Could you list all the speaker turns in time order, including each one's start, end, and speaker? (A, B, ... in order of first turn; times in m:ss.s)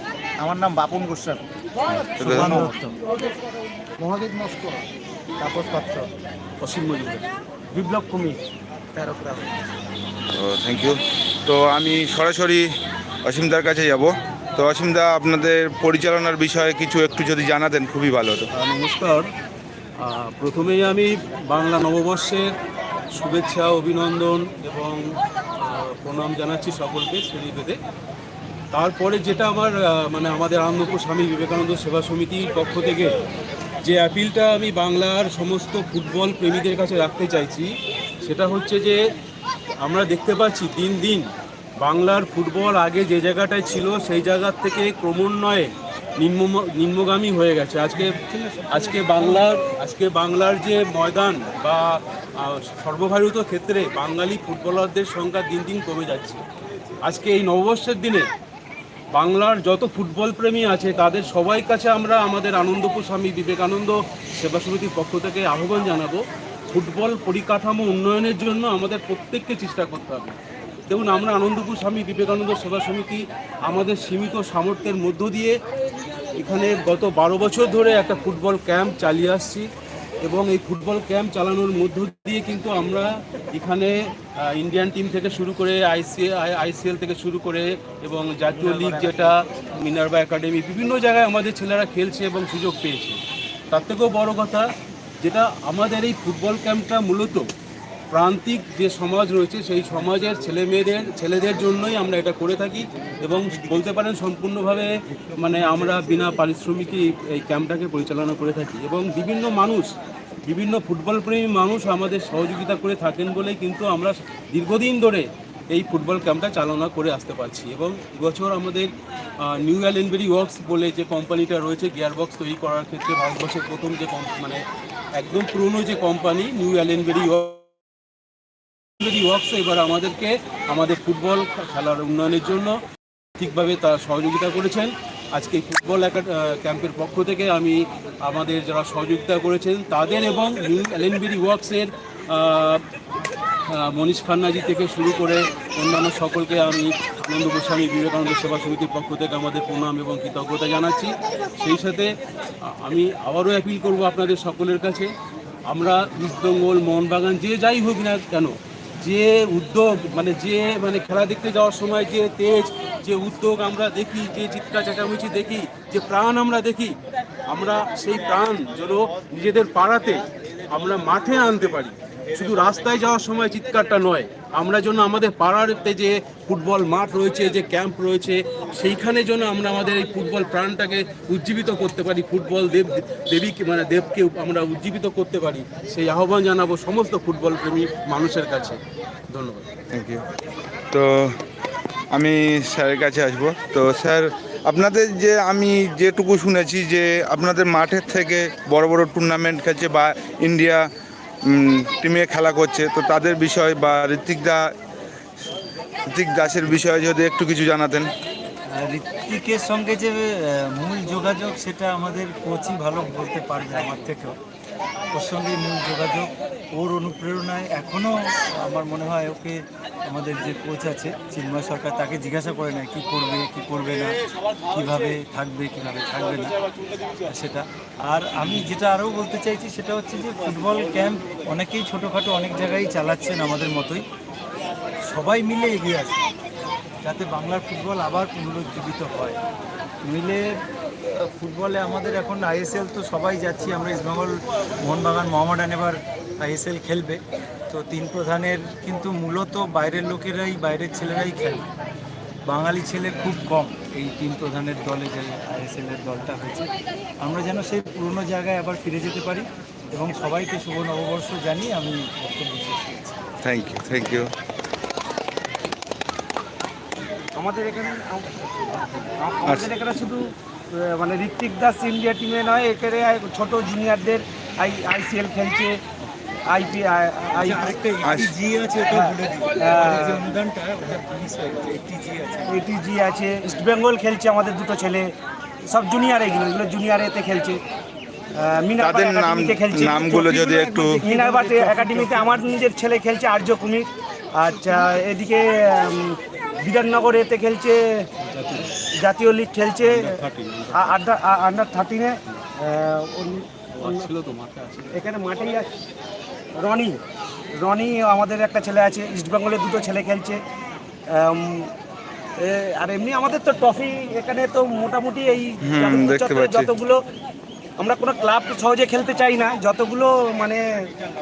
0:00.4-0:01.4 A
0:02.0-0:03.1 A
0:02.2-0:02.6 B
0:02.2-0:02.8 C
0:04.0-0:04.8 A
0:05.4-0:06.1 A
0:06.6-0:07.2 D
0:07.7-0:08.4 A
0:09.0-0:09.5 A
0:10.3-0:12.7 B
0:13.2-0:18.5 B
0:18.5-0:19.3 D
0:20.0-0:22.5 D
0:23.1-0:27.8 D
0:28.7-0:33.1 D
0:33.8-0:39.0 D
0:39.8-0:41.3 D
0:41.8-0:56.4 D
0:57.0-0:58.3 D
0:59.1-1:10.4 D
1:10.9-1:15.6 D
1:16.4-1:19.7 D
1:20.2-1:33.2 D
1:28.6-1:29.3 A
1:33.7-1:34.7 D
1:35.2-1:37.5 D
1:38.1-1:49.9 D
1:50.4-2:04.6 D
2:05.2-2:07.7 D
2:09.0-2:12.8 D
2:13.4-2:22.8 D
2:23.7-2:32.1 D
2:32.6-2:35.1 D
2:35.7-3:08.8 D
3:09.3-3:09.7 D
3:09.9-3:10.2 B
3:10.9-3:11.4 B
3:12.1-3:20.9 B
3:21.4-3:24.7 B
3:26.1-3:28.1 B
3:28.7-3:34.4 C
3:35.1-3:46.5 C
3:47.2-3:54.0 C
3:48.4-3:48.6 D
3:55.1-3:56.2 C
3:57.0-3:59.4 C
4:00.0-4:11.7 C
4:12.4-4:23.2 C
4:23.4-4:24.3 B
4:27.3-4:35.8 A
4:36.5-4:37.7 A
4:37.4-4:42.6 C
4:38.0-4:38.3 B
4:38.9-4:40.2 A
4:42.5-4:45.1 A
4:45.7-4:47.6 A
4:48.4-4:58.0 A
4:48.8-4:51.0 B
4:50.8-4:52.5 D
4:58.2-4:58.7 D
4:58.9-5:00.2 A
4:59.8-5:01.0 D
5:00.7-5:04.1 A
5:03.8-5:05.0 D
5:04.9-5:05.7 A
5:06.6-5:07.0 A
5:07.6-5:10.4 A
5:11.1-5:11.7 A
5:12.4-5:17.0 A
5:15.6-5:16.7 B
5:17.8-5:20.9 A